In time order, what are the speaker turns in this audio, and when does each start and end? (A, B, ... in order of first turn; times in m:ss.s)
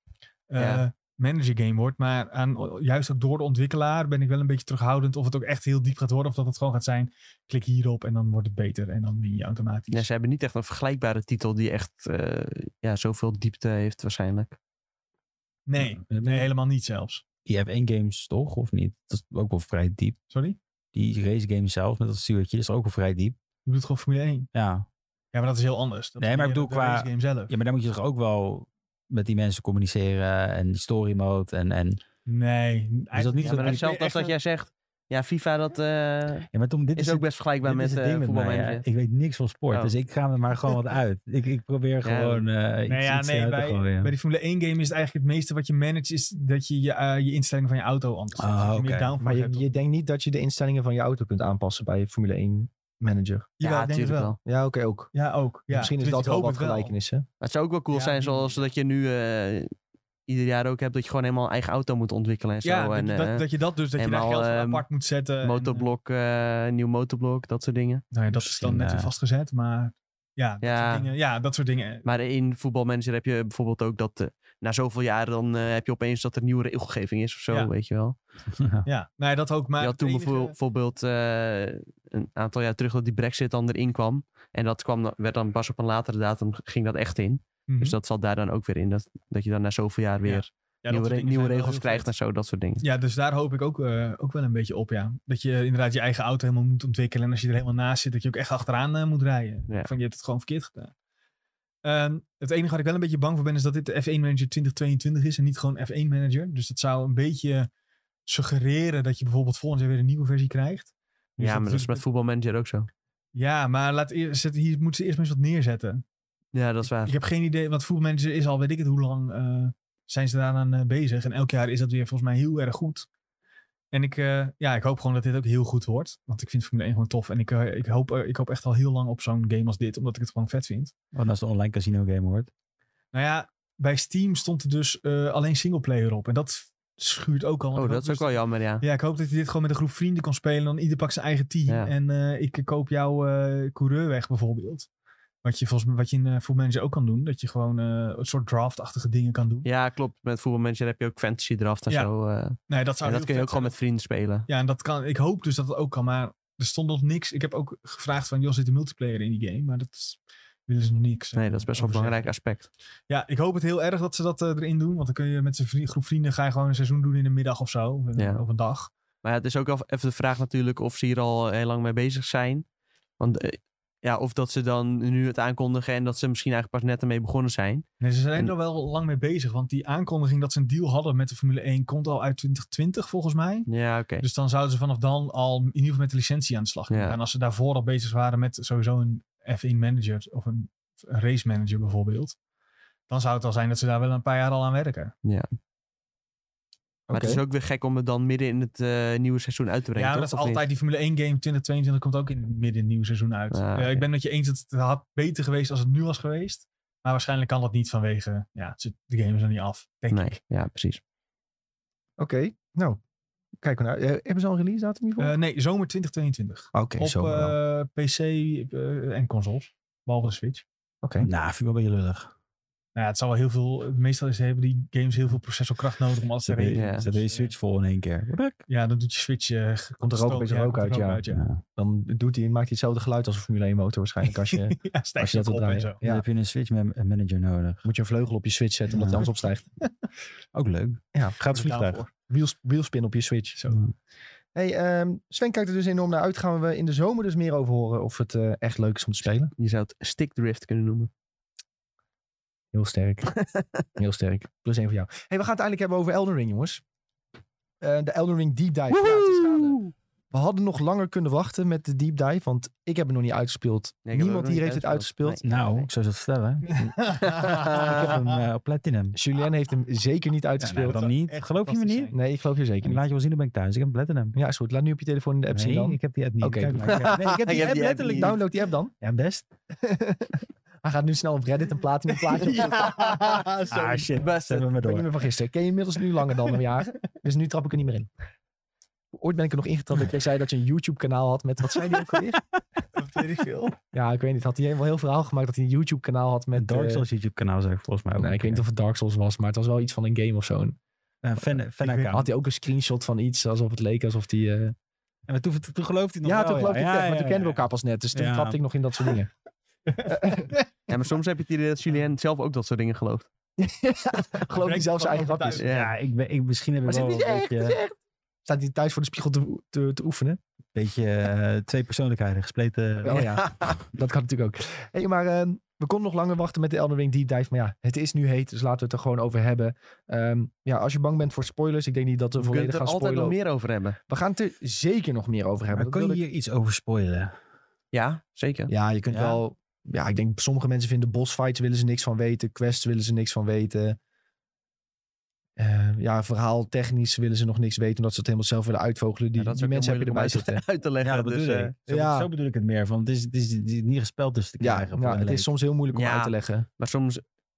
0:00.5-0:10.0 A
0:00.6-0:00.8 B
0:09.9-0:14.6 B
0:15.7-0:17.2 A
0:15.8-0:16.5 C
0:17.4-0:20.2 C
0:20.3-0:20.6 A
0:20.9-0:23.4 C
0:23.6-0:24.5 A
0:24.5-0:24.9 C
0:25.3-0:27.5 A
0:26.2-0:32.0 C
0:32.3-0:34.4 A
0:33.1-0:33.8 C
0:33.4-0:38.8 B
0:36.5-0:44.1 C
0:42.0-0:42.4 B
0:42.9-0:49.8 A
0:48.4-0:49.1 C
0:49.2-0:53.5 D
0:53.6-0:54.4 A
0:53.6-0:54.4 B
0:54.4-0:55.1 D
0:55.1-0:56.9 A
0:55.7-0:57.3 D
0:57.4-0:59.7 B
0:57.9-0:58.6 A
1:00.3-1:03.4 B
1:02.6-1:05.9 A
1:04.0-1:04.9 B
1:05.4-1:08.0 B
1:08.1-1:12.1 A
1:08.3-1:09.1 C
1:10.6-1:11.1 B
1:12.0-1:18.2 B
1:18.6-1:18.9 C
1:18.9-1:20.5 A
1:19.8-1:32.8 B
1:27.7-1:28.0 A
1:30.2-1:32.1 A
1:32.8-1:40.9 A
1:41.8-1:47.7 A
1:48.3-1:52.0 A
1:51.4-1:52.9 B
1:53.3-1:56.0 A
1:56.5-1:57.2 B
1:57.0-2:03.1 A
2:03.9-2:10.9 A
2:11.1-2:12.5 C
2:13.1-2:24.9 A
2:17.8-2:18.8 B
2:21.7-2:21.9 B
2:25.4-2:29.7 A
2:29.6-2:34.5 B
2:32.7-2:33.8 A
2:34.5-2:42.3 A
2:41.4-2:42.7 B
2:43.1-2:48.9 A
2:48.2-2:48.4 B
2:49.2-2:52.6 B
2:53.2-2:58.5 B
2:58.0-3:03.7 A
3:03.7-3:04.2 B
3:04.2-3:12.4 A
3:06.9-3:07.2 B
3:13.1-3:15.1 A
3:17.1-3:17.4 D
3:17.1-3:20.6 B
3:20.0-3:30.3 A
3:23.5-3:24.1 B
3:30.1-3:31.0 B
3:32.2-3:33.0 D
3:33.6-3:35.4 D
3:35.2-3:40.6 A
3:36.7-3:37.6 D
3:41.0-3:41.3 D
3:41.2-3:42.3 C
3:43.0-3:47.5 A
3:46.4-3:48.6 C
3:46.7-3:47.1 B
3:48.7-3:51.4 A
3:50.0-3:51.2 D
3:51.3-3:51.6 C
3:51.8-3:56.2 D
3:54.2-3:56.0 A
3:56.0-3:57.8 C
3:57.8-3:59.6 D
3:58.9-3:59.3 C
4:00.5-4:02.1 C
4:01.5-4:02.1 A
4:02.3-4:03.6 D
4:04.6-4:09.5 D
4:09.6-4:11.1 B
4:12.7-4:13.3 D
4:14.0-4:16.8 D
4:17.8-4:19.8 D
4:19.0-4:19.9 B
4:20.3-4:25.4 D
4:24.1-4:25.9 B
4:25.4-4:29.2 C
4:26.8-4:28.2 A
4:27.4-4:27.8 B
4:29.1-4:31.1 D
4:30.6-4:32.1 C
4:30.7-4:32.2 A
4:32.1-4:33.0 D
4:32.8-4:34.4 C
4:34.3-4:39.0 D
4:35.5-4:38.4 C
4:36.9-4:38.3 B
4:39.0-4:39.4 C
4:39.7-4:43.0 D
4:42.3-4:43.7 A
4:42.7-4:43.0 B
4:43.6-4:44.7 B
4:43.7-4:45.2 C
4:44.8-4:48.1 D
4:49.1-4:52.4 D
4:53.0-4:53.8 A
4:53.9-4:57.0 D
4:56.5-4:58.6 C
4:58.2-5:00.8 D
5:01.2-5:02.3 C
5:01.8-5:02.1 A
5:02.1-5:04.8 D
5:05.3-5:08.6 C
5:06.2-5:09.3 D
5:09.9-5:10.6 A
5:10.1-5:10.5 D
5:10.9-5:13.3 B
5:13.6-5:15.6 D
5:14.6-5:15.7 A
5:15.6-5:15.9 B
5:15.6-5:17.8 C
5:16.9-5:17.9 D
5:18.4-5:20.4 D
5:20.7-5:23.3 C
5:23.0-5:33.4 D
5:23.1-5:23.8 B
5:32.4-5:34.0 B
5:34.1-5:36.2 D
5:35.7-5:37.4 C
5:37.9-5:38.7 B
5:38.7-5:44.0 D
5:39.1-5:39.4 C
5:45.6-5:50.6 D
5:49.4-5:51.7 B
5:51.0-5:55.5 C
5:51.9-5:52.3 D
5:54.6-5:56.7 D
5:55.9-5:57.2 B